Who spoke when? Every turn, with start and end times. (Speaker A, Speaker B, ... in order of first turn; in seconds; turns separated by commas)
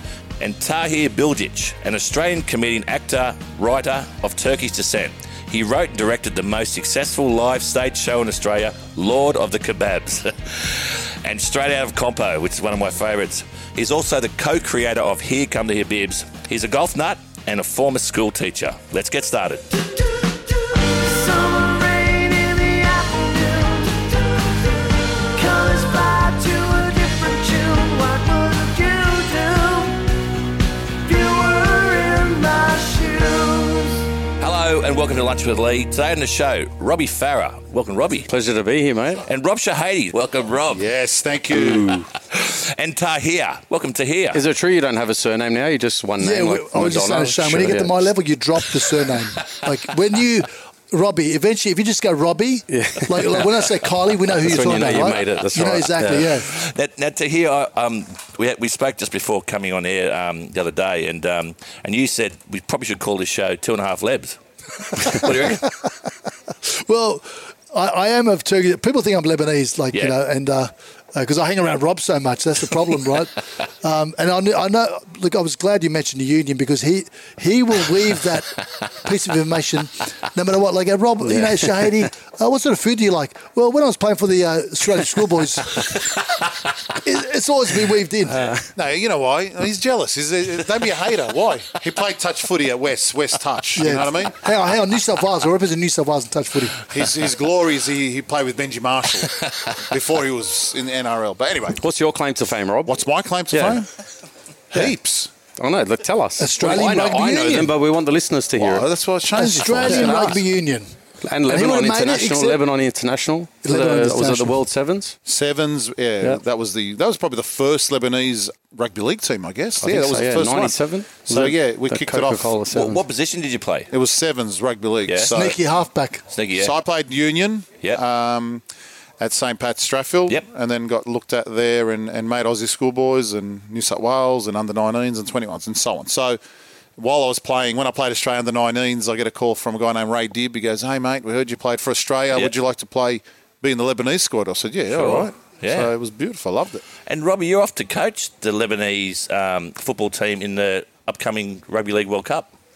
Speaker A: 0.4-19.8, Speaker B: 20.6-30.2, Speaker B: 31.0-34.1, Speaker A: 34.4-38.3, Speaker C: 38.3-39.2, Speaker A: 39.2-40.9, Speaker D: 40.7-42.0, Speaker C: 41.5-42.1, Speaker A: 42.3-44.4, Speaker C: 44.3-48.0, Speaker E: 46.2-56.5, Speaker C: 52.7-53.4, Speaker C: 54.4-56.3, Speaker A: 56.1-65.7, Speaker E: 66.6-86.2, Speaker C: 81.2-82.0, Speaker E: 86.9-88.6, Speaker D: 88.7-94.4, Speaker E: 93.7-96.9, Speaker D: 96.9-101.8, Speaker C: 101.8-103.0, Speaker D: 102.8-103.9, Speaker C: 103.5-103.8, Speaker D: 104.7-105.3, Speaker C: 105.6-108.8, Speaker E: 106.4-107.8, Speaker D: 108.5-110.4, Speaker E: 109.3-110.9, Speaker C: 109.7-110.3, Speaker C: 111.2-115.1, Speaker E: 111.5-112.6, Speaker E: 113.6-114.6, Speaker D: 115.2-122.6, Speaker C: 119.8-123.0, Speaker A: 122.7-123.9, Speaker D: 123.9-125.6, Speaker A: 125.0-125.3, Speaker E: 125.3-126.2, Speaker A: 126.3-126.8, Speaker D: 126.5-128.6, Speaker D: 129.2-136.4, Speaker D: 137.0-146.8, Speaker A: 144.9-145.9, Speaker A: 147.0-152.5